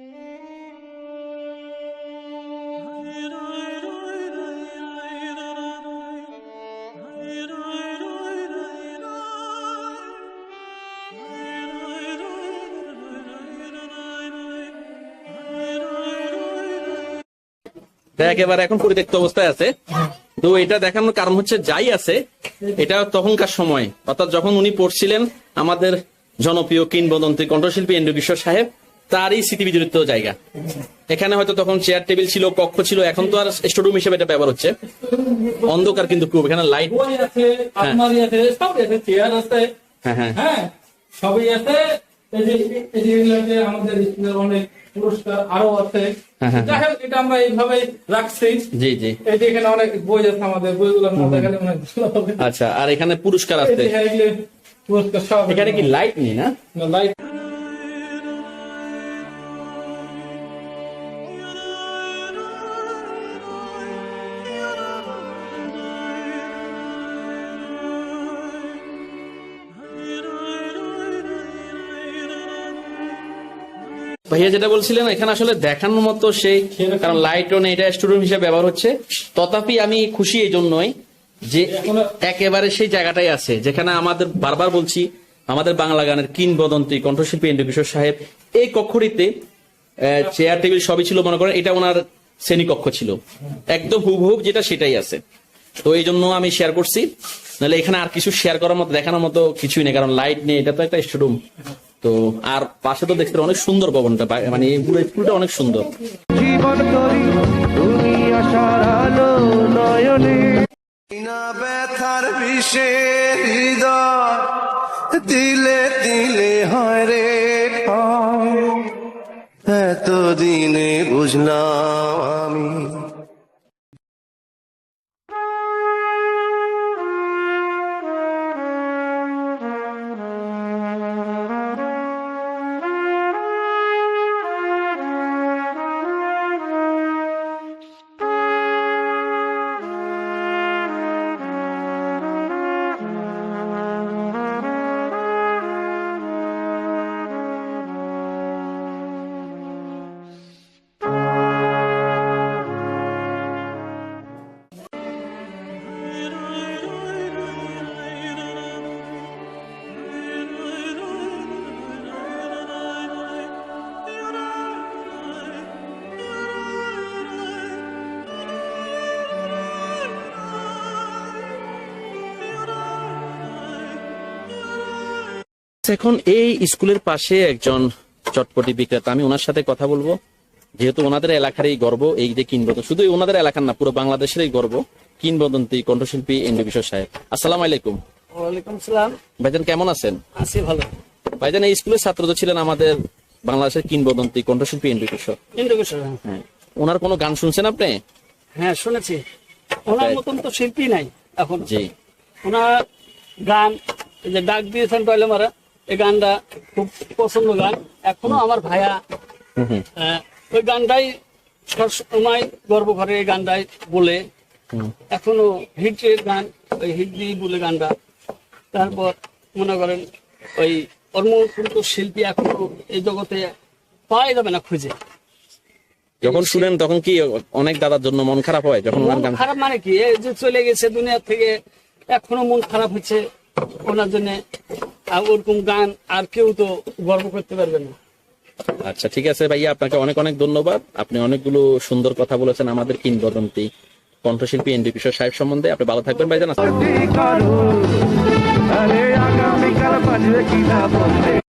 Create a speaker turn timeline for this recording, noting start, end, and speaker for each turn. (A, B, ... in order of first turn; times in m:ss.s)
0:18.2-0:19.7 A
0:20.4-0:22.2 A
0:22.8-0:30.4 A
0:31.1-0:34.7 A
0:35.0-0:36.1 B
0:35.6-0:37.0 A
0:36.9-0:39.7 B
0:40.0-0:40.4 A
0:40.4-0:48.7 B
0:46.4-0:46.8 A
0:48.7-0:49.2 A
0:49.2-0:52.4 B
0:51.2-0:51.5 A
0:52.4-0:53.9 A
0:53.6-0:55.9 B
0:55.5-0:56.5 A
0:56.7-0:57.2 B
1:14.3-1:20.9 A
1:16.8-1:17.2 B
1:21.5-1:29.3 A
1:21.7-1:22.1 B
1:30.0-1:35.2 A
1:35.8-1:41.4 A
1:42.0-1:45.9 A
1:46.3-1:50.6 C
1:51.1-1:58.8 D
1:59.7-2:03.0 D
2:55.8-3:00.2 A
3:00.8-3:08.0 A
3:08.4-3:09.1 E
3:09.4-3:10.2 A
3:10.4-3:10.9 E
3:11.4-3:15.4 A
3:15.6-3:16.2 E
3:16.3-3:18.0 A
3:18.6-3:19.2 E
3:19.9-3:21.6 E
3:19.9-3:20.2 A
3:21.6-3:21.9 A
3:22.4-3:22.7 E
3:23.4-3:29.0 E
3:29.6-3:29.8 A
3:30.0-3:31.1 E
3:31.7-3:34.2 E
3:35.1-3:37.9 E
3:38.7-3:40.0 E
3:40.6-3:43.5 E
3:44.1-3:44.9 E
3:46.2-3:49.4 A
3:46.2-3:46.7 E
3:48.9-3:51.6 E
3:52.1-3:53.2 E
3:53.8-3:54.4 E
3:55.1-3:58.0 E
3:58.8-4:03.7 A
4:04.2-4:06.7 A
4:06.6-4:08.2 C
4:08.7-4:11.4 C